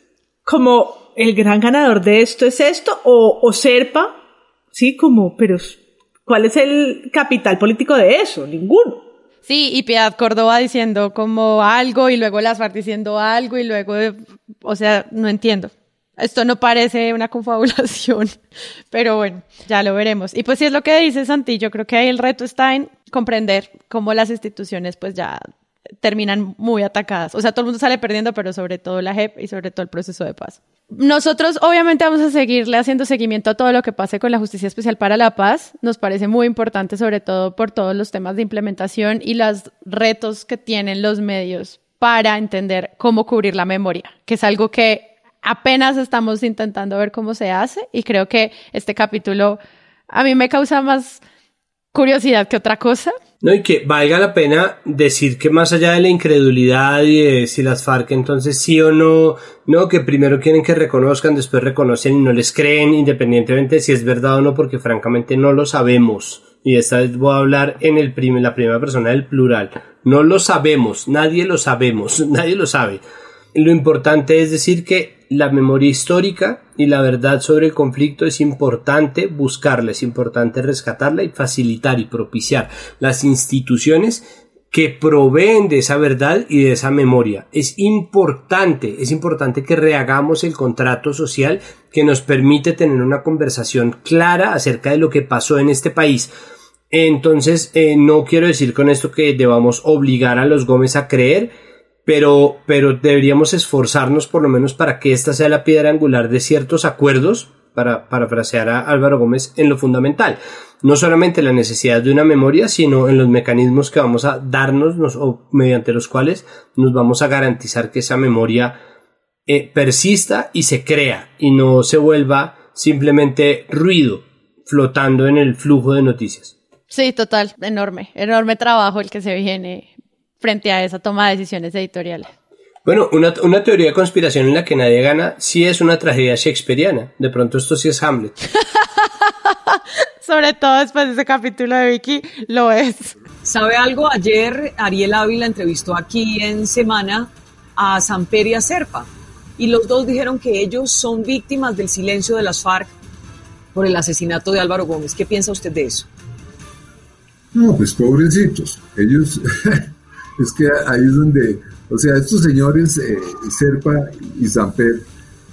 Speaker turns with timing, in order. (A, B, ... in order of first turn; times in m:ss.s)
0:00.5-0:04.2 A
0:04.7-0:09.0 A
0:09.5-0:18.3 B
0:18.9-0:25.4 B
0:26.0-0:49.6 B
0:50.1-0:51.2 B
0:51.9-0:53.1 B
0:53.4-1:13.0 C
1:13.5-1:36.3 C
1:36.9-1:41.5 C
1:42.1-1:58.8 C
1:59.5-2:06.6 C
2:06.9-2:12.3 B
2:12.8-2:18.4 C
2:20.2-2:23.1 B
2:23.4-2:32.9 D
2:33.7-2:36.1 D
2:37.5-2:45.1 E